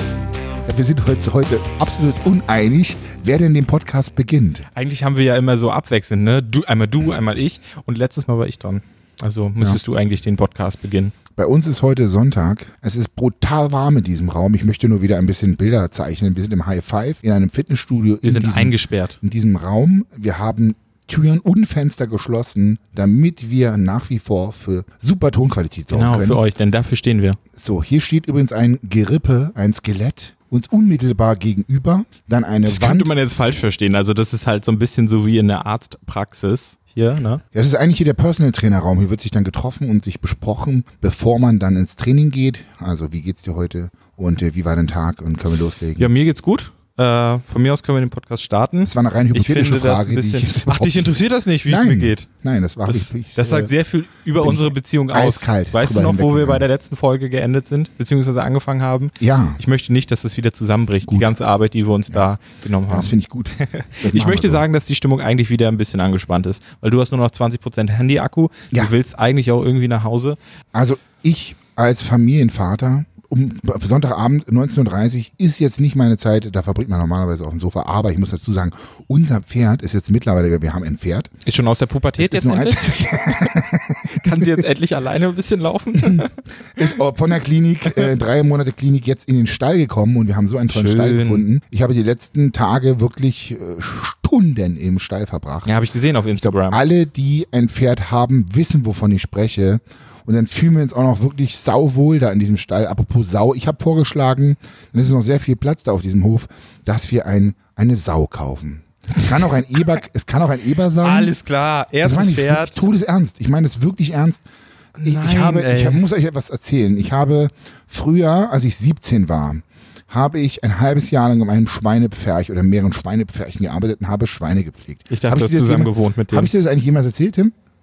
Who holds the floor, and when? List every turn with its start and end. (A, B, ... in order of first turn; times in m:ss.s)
0:00.6-0:04.6 A
0:04.8-0:11.1 B
0:11.4-0:26.4 A
0:18.2-0:19.2 B
0:25.9-0:27.4 B
0:27.5-0:33.1 A
0:32.6-0:37.4 B
0:37.5-0:46.1 A
0:46.0-0:52.3 B
0:48.8-0:53.7 A
0:52.9-1:10.4 B
0:54.4-0:56.7 A
0:59.2-0:59.6 A
1:01.1-1:01.3 A
1:02.9-1:04.6 A
1:10.7-1:21.3 A
1:21.4-1:26.9 B
1:22.2-1:24.6 A
1:26.0-1:26.2 A
1:26.8-1:35.7 A
1:30.7-1:31.4 B
1:35.7-1:36.8 B
1:36.4-1:51.3 A
1:51.0-1:52.9 B
1:52.0-1:54.4 A
1:55.0-1:56.0 B
1:55.0-2:07.5 A
2:05.1-2:06.5 B